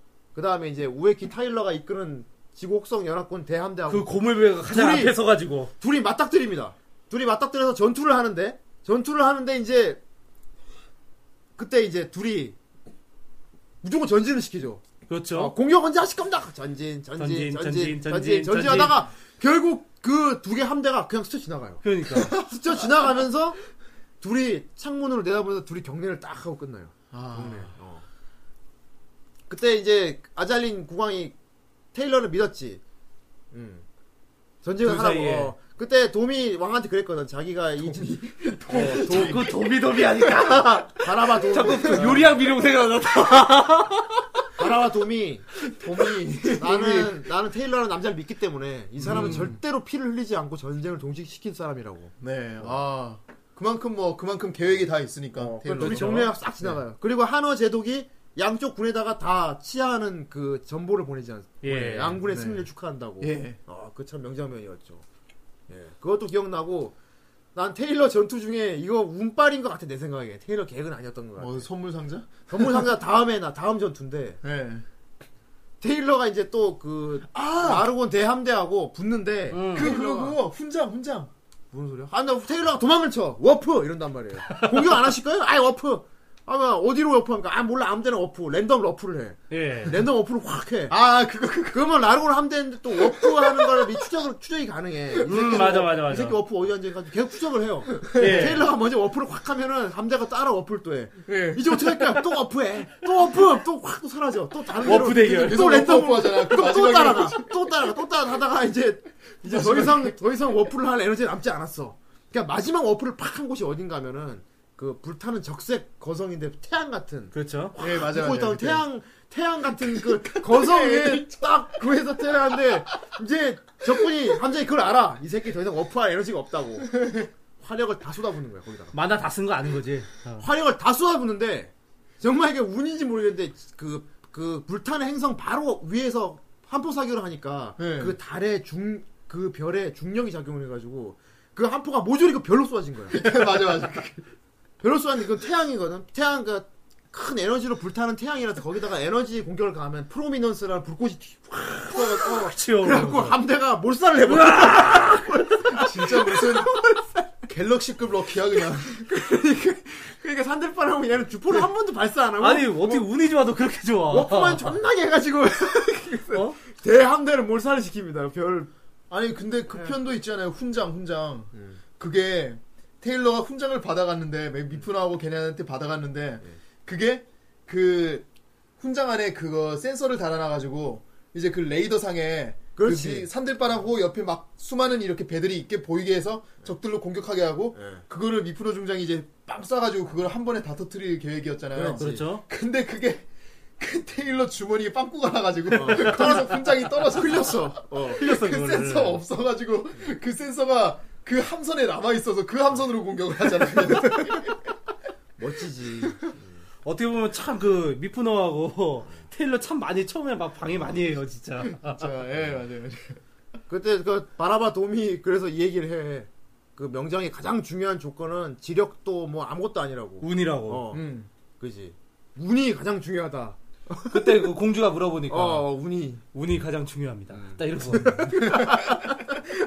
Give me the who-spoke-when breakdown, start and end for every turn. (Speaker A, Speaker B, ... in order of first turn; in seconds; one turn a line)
Speaker A: 0.3-4.1
Speaker B: 3.9-5.7
Speaker A: 4.7-5.2
Speaker A: 5.8-10.0
Speaker A: 11.6-12.6
Speaker A: 13.8-23.6
Speaker B: 15.1-15.5
Speaker B: 17.2-19.0
Speaker B: 21.8-22.4
Speaker A: 24.2-28.0
Speaker C: 27.1-27.7
Speaker A: 29.5-31.4
Speaker A: 31.9-32.8
Speaker A: 33.5-33.9
Speaker A: 34.6-39.5
Speaker B: 34.8-35.5
Speaker C: 37.8-39.5
Speaker B: 38.7-44.4
Speaker A: 41.0-42.3
Speaker C: 41.8-42.2
Speaker A: 44.6-45.5
Speaker C: 45.7-47.2
Speaker A: 46.6-52.8
Speaker C: 49.0-49.6
Speaker C: 52.2-56.8
Speaker A: 55.3-65.0
Speaker B: 55.8-56.3
Speaker B: 61.6-62.2
Speaker C: 62.2-62.7
Speaker C: 63.2-63.6
Speaker A: 65.7-67.0
Speaker A: 67.5-71.7
Speaker C: 71.4-72.9
Speaker A: 72.5-74.4
Speaker C: 74.4-74.8
Speaker A: 75.8-80.4
Speaker C: 77.3-77.9
Speaker B: 79.5-79.9
Speaker C: 79.7-81.3
Speaker A: 81.7-91.0
Speaker B: 84.5-84.9
Speaker B: 89.5-90.0
Speaker C: 90.9-91.9
Speaker A: 91.7-127.0
Speaker C: 92.9-94.0
Speaker C: 95.1-95.7
Speaker B: 95.3-96.4
Speaker C: 98.0-98.6
Speaker B: 98.2-98.7
Speaker C: 101.3-102.2
Speaker B: 104.8-105.8
Speaker C: 104.9-107.6
Speaker C: 109.4-110.2
Speaker B: 117.3-117.8
Speaker C: 117.8-118.8
Speaker C: 119.8-121.6
Speaker C: 122.5-122.8
Speaker C: 126.9-127.3
Speaker A: 127.6-128.9
Speaker B: 128.9-130.5
Speaker A: 130.4-143.3
Speaker C: 137.8-138.2
Speaker C: 143.1-144.2
Speaker A: 144.8-157.2
Speaker B: 152.0-153.4
Speaker B: 154.2-155.6
Speaker C: 155.7-156.8
Speaker C: 157.5-159.1
Speaker A: 159.0-163.1
Speaker B: 162.4-164.8
Speaker A: 164.1-168.7
Speaker B: 166.3-166.6
Speaker C: 169.1-178.3
Speaker A: 171.5-171.8
Speaker C: 178.8-193.2
Speaker A: 182.8-183.3
Speaker A: 187.8-188.0
Speaker A: 191.7-192.3
Speaker B: 192.0-192.4
Speaker C: 193.8-204.6
Speaker A: 195.7-198.2
Speaker B: 198.2-199.2
Speaker A: 205.4-206.5
Speaker B: 206.8-212.1
Speaker C: 211.6-213.2
Speaker A: 213.7-221.0
Speaker B: 220.2-220.9
Speaker C: 220.9-221.3
Speaker A: 221.6-224.4
Speaker B: 224.1-225.7
Speaker A: 225.3-226.2
Speaker B: 226.3-228.3
Speaker A: 227.3-229.4
Speaker C: 228.4-228.9